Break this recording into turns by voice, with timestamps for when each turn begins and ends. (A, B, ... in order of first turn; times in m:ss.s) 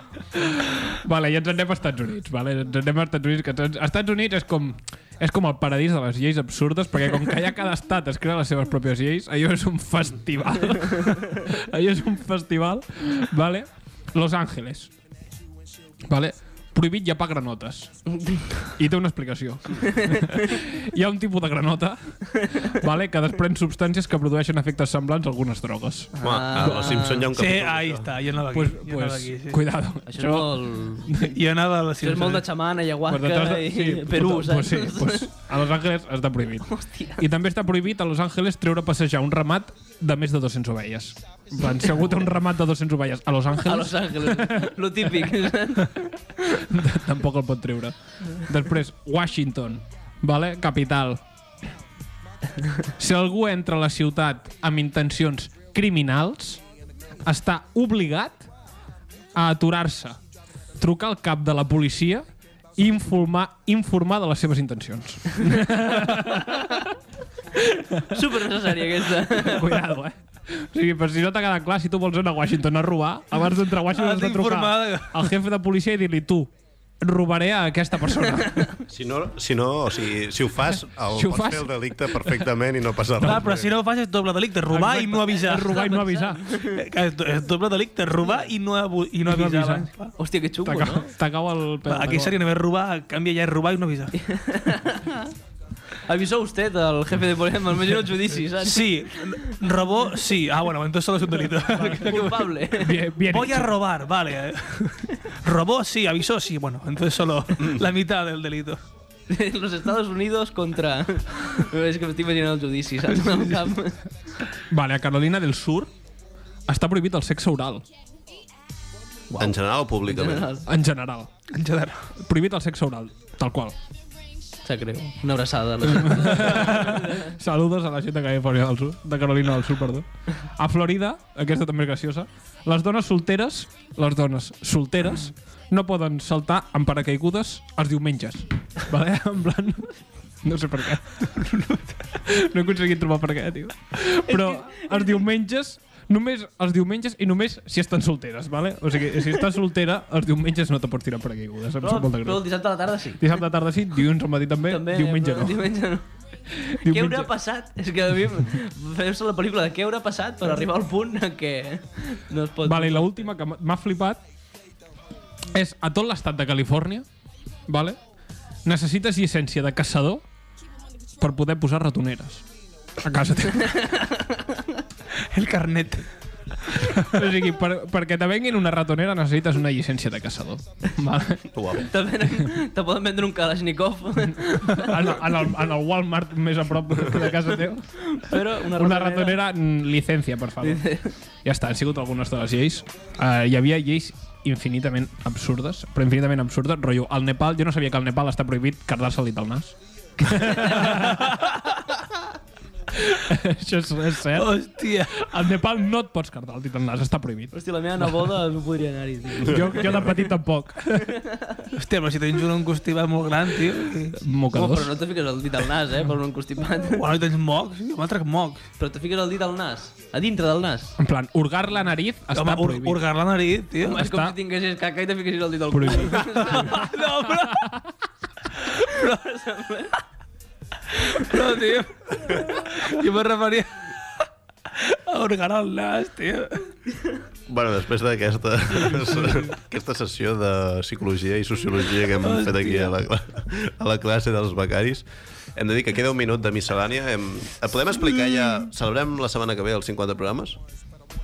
0:00.4-0:14.9 A
0:16.1-0:18.0 A
0:18.8-0:26.7 A
0:26.2-0:27.3 B
0:26.2-0:28.1 C
0:27.3-0:29.6 D
0:28.5-0:31.4 A
0:30.1-0:31.2 B
0:31.2-0:32.4 D
0:32.0-0:35.3 B
0:33.1-0:45.4 A
0:36.7-0:37.2 B
0:43.6-0:46.0 B
0:46.6-0:51.2 A
0:53.0-0:56.6 A
0:57.2-0:58.5 A
0:59.4-1:00.2 A
1:00.8-1:02.3 A
1:02.8-1:07.0 A
1:07.7-1:08.2 A
1:08.0-1:09.8 B
1:09.3-1:18.7 A
1:13.9-1:15.3 D
1:18.4-1:18.7 B
1:18.9-1:23.7 C
1:21.1-1:22.4 A
1:23.2-1:25.8 D
1:24.7-1:26.5 A
1:25.6-1:26.8 B
1:26.6-1:30.1 D
1:29.3-1:29.9 A
1:30.2-1:31.1 B
1:30.6-1:32.4 A
1:31.9-1:34.2 D
1:34.2-1:35.3 B
1:36.1-1:39.4 B
1:38.6-1:42.4 D
1:41.6-1:43.0 B
1:42.7-1:43.8 A
1:43.3-1:48.8 D
1:49.3-1:54.0 B
1:53.2-1:53.6 D
1:54.7-1:55.9 A
1:56.7-1:57.8 A
1:59.3-2:00.6 B
1:59.4-2:00.5 C
2:00.7-2:01.3 A
2:01.5-2:02.1 D
2:02.2-2:03.8 A
2:04.6-2:07.4 B
2:06.0-2:21.5 A
2:21.4-2:22.0 D
2:22.3-2:32.5 A
2:24.3-2:25.2 B
2:31.8-2:33.2 B
2:33.2-2:35.7 A
2:34.7-2:36.1 B
2:36.7-2:37.3 A
2:36.7-2:43.3 B
2:42.6-2:44.2 A
2:45.5-2:47.1 A
2:47.7-2:48.0 A
2:48.6-2:50.2 A
2:51.2-2:52.4 A
2:53.0-2:53.8 A
2:53.6-2:54.6 B
2:55.3-2:56.0 D
2:56.7-2:57.2 D
2:57.1-3:01.5 A
3:01.5-3:01.9 C
3:01.8-3:05.0 B
3:04.7-3:21.4 A
3:08.0-3:09.4 B
3:10.6-3:11.2 B
3:21.1-3:21.4 D
3:22.9-3:28.3 A
3:24.4-3:25.3 D
3:27.5-3:30.2 B
3:29.4-3:31.2 A
3:31.2-3:31.7 B
3:31.7-3:34.2 D
3:34.2-3:34.9 A
3:34.5-3:37.0 B
3:36.8-3:38.6 D
3:38.8-3:40.9 B
3:41.0-3:43.0 A
3:42.3-3:44.0 D
3:43.8-3:46.9 B
3:43.9-3:44.4 A
3:45.7-3:46.9 A
3:46.4-3:47.7 D
3:48.8-3:50.0 B
3:51.2-3:53.7 D
3:54.7-3:56.6 D
3:57.5-4:10.6 C
4:02.2-4:02.9 D